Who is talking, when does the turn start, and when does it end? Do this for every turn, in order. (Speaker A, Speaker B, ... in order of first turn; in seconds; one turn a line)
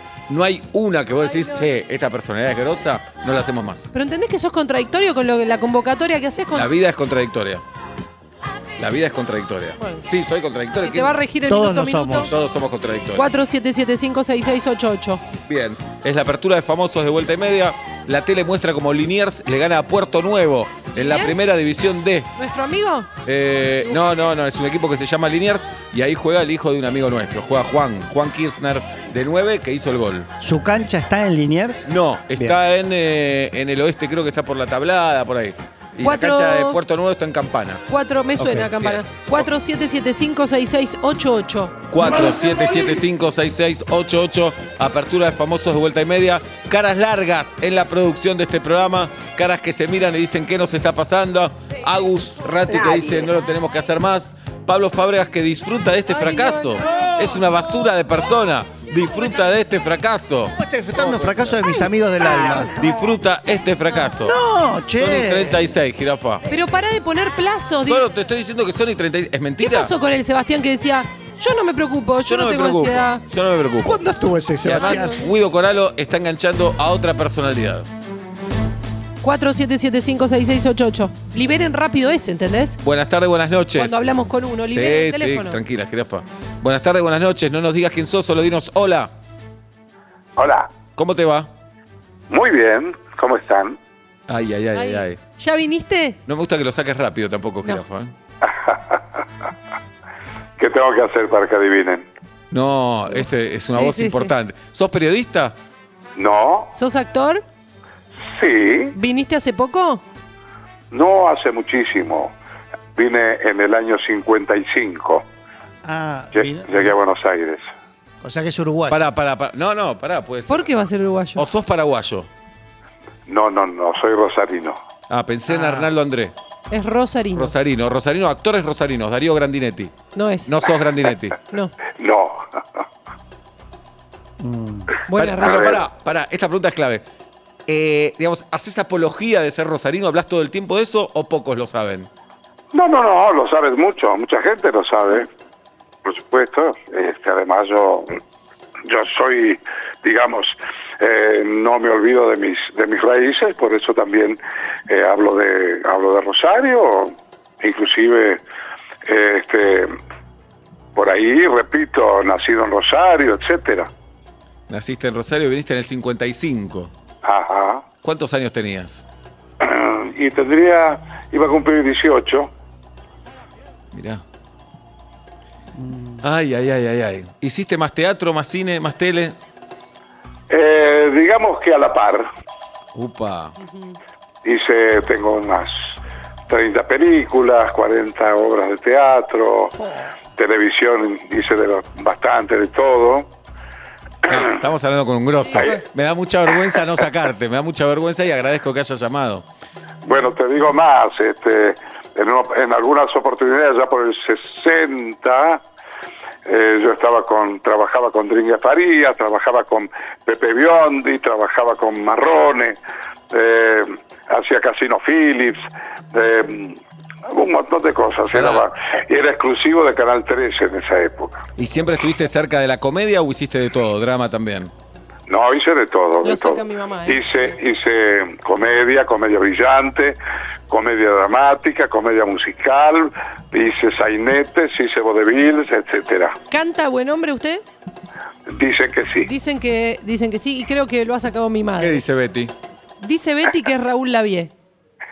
Speaker A: 0.3-3.9
Speaker B: 1.3-1.6
Speaker B: 3.9-6.7
Speaker A: 6.5-7.6
Speaker A: 8.8-11.2
Speaker B: 9.8-10.1
Speaker B: 10.8-12.3
Speaker C: 11.5-12.3
Speaker A: 12.3-13.3
Speaker B: 13.2-15.3
Speaker A: 15.5-22.3
Speaker B: 20.9-21.4
Speaker B: 22.4-23.1
Speaker A: 23.2-30.3
Speaker C: 30.4-32.5
Speaker A: 31.9-37.8
Speaker B: 36.0-36.8
Speaker B: 37.9-41.9
Speaker A: 38.4-39.5
Speaker A: 41.9-61.6
Speaker B: 56.1-56.8
Speaker C: 56.8-57.6
Speaker C: 60.6-62.9
Speaker A: 62.8-64.3
Speaker C: 64.2-65.7
Speaker A: 65.0-66.4
Speaker B: 66.5-68.0
Speaker A: 67.9-69.9
Speaker B: 69.6-73.2
Speaker A: 72.2-74.0
Speaker C: 73.8-75.2
Speaker A: 74.6-77.9
Speaker B: 74.8-75.3
Speaker B: 79.2-82.8
Speaker A: 82.8-84.1
Speaker B: 83.8-85.6
Speaker A: 84.7-89.1
Speaker D: 90.4-90.7
Speaker A: 91.0-91.5
Speaker D: 92.3-93.8
Speaker A: 94.3-95.2
Speaker B: 94.8-96.2
Speaker A: 96.3-98.1
Speaker D: 98.4-99.1
Speaker D: 100.6-102.0
Speaker A: 102.5-105.5
Speaker B: 103.7-104.3
Speaker D: 106.2-106.7
Speaker B: 106.7-107.4
Speaker D: 108.3-109.0
Speaker B: 109.0-110.0
Speaker D: 110.9-112.3
Speaker D: 113.0-115.2
Speaker C: 115.8-117.0
Speaker D: 116.3-117.7
Speaker C: 118.2-119.0
Speaker A: 118.9-120.7
Speaker B: 120.5-121.5
Speaker A: 121.4-122.3
Speaker D: 123.3-124.8
Speaker A: 125.1-126.3
Speaker C: 125.5-125.9
Speaker B: 126.7-127.5
Speaker A: 127.4-131.4
Speaker B: 130.2-130.6
Speaker D: 131.9-132.5
Speaker C: 134.4-134.9
Speaker B: 135.1-135.8
Speaker A: 135.1-137.0
Speaker D: 135.4-135.8
Speaker A: 137.7-142.1
Speaker D: 142.7-145.3
Speaker D: 146.1-148.2
Speaker D: 148.9-158.4
Speaker D: 159.1-159.9
Speaker D: 160.9-163.9
Speaker A: 164.7-166.9
Speaker D: 167.2-167.8
Speaker A: 168.0-169.0
Speaker D: 169.6-172.5
Speaker A: 173.9-174.2
Speaker C: 175.8-176.2
Speaker A: 176.2-179.3
Speaker D: 180.5-182.3
Speaker A: 182.9-183.6
Speaker B: 183.6-183.9
Speaker D: 184.4-186.0
Speaker D: 186.5-189.8
Speaker C: 189.8-190.1
Speaker D: 190.4-193.3
Speaker A: 194.3-199.4
Speaker D: 195.6-195.8
Speaker D: 200.1-205.6
Speaker D: 206.5-212.8
Speaker D: 213.3-221.4
Speaker A: 218.3-218.7
Speaker A: 221.6-224.7
Speaker D: 225.3-230.2
Speaker B: 226.2-227.3
Speaker D: 230.7-236.4
Speaker B: 236.5-237.6
Speaker D: 238.5-239.3
Speaker B: 239.2-242.0
Speaker A: 241.8-242.5
Speaker B: 243.0-244.5